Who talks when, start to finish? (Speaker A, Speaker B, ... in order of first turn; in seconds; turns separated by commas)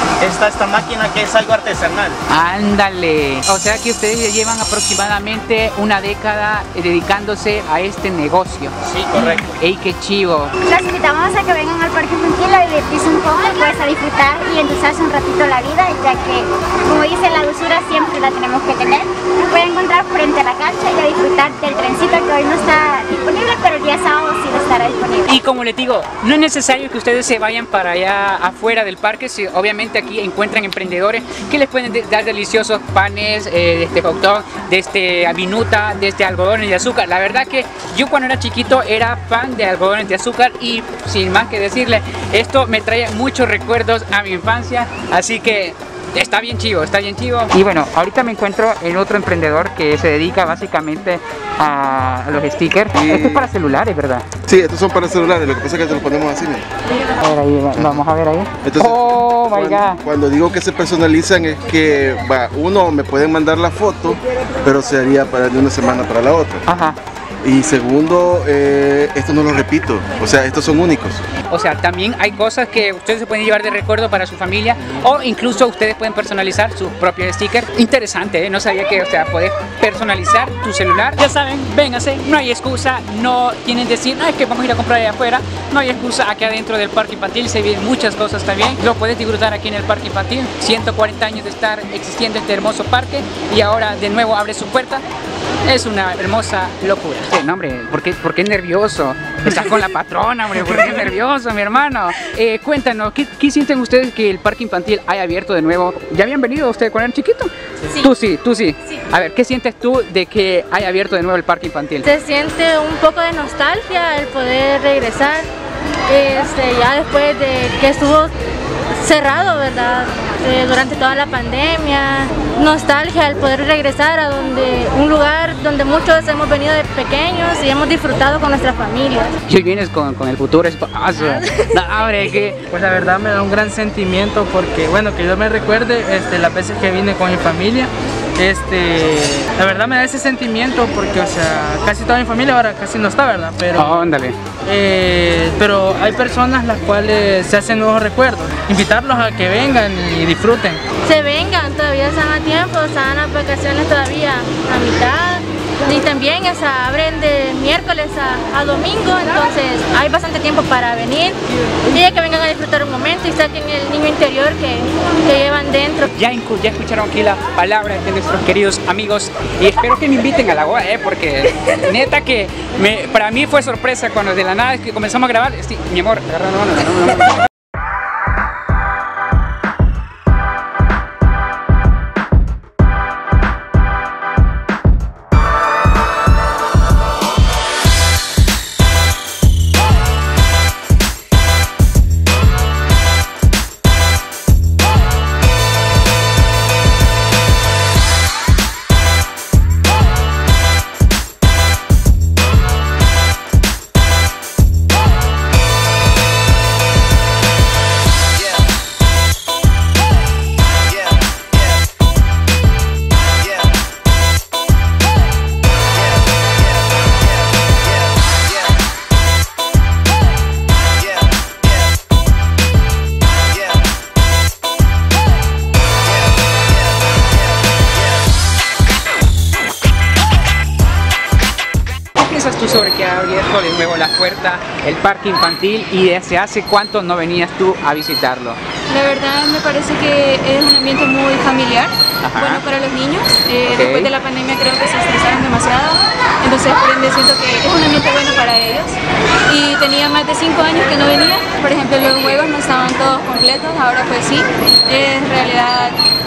Speaker A: 0.2-2.2, Speaker B: 2.3-8.7, Speaker A: 8.8-9.5, Speaker B: 9.6-10.5, Speaker C: 10.6-25.3, Speaker B: 25.2-54.2, Speaker D: 52.9-53.5, Speaker D: 54.5-56.6, Speaker B: 57.2-60.0, Speaker D: 57.8-58.0, Speaker D: 58.6-66.6, Speaker B: 66.7-67.0, Speaker D: 67.4-71.2, Speaker B: 71.5-95.0, Speaker B: 95.6-112.1, Speaker E: 112.0-115.5, Speaker E: 116.1-118.3, Speaker E: 119.0-129.3, Speaker B: 129.5-132.6, Speaker F: 132.7-144.0, Speaker B: 143.7-144.4, Speaker F: 144.7-150.8, Speaker E: 151.0-166.1, Speaker B: 166.1-177.3, Speaker B: 232.1-238.6, Speaker G: 238.9-249.0, Speaker B: 242.2-242.6, Speaker B: 243.6-244.1, Speaker G: 249.5-256.0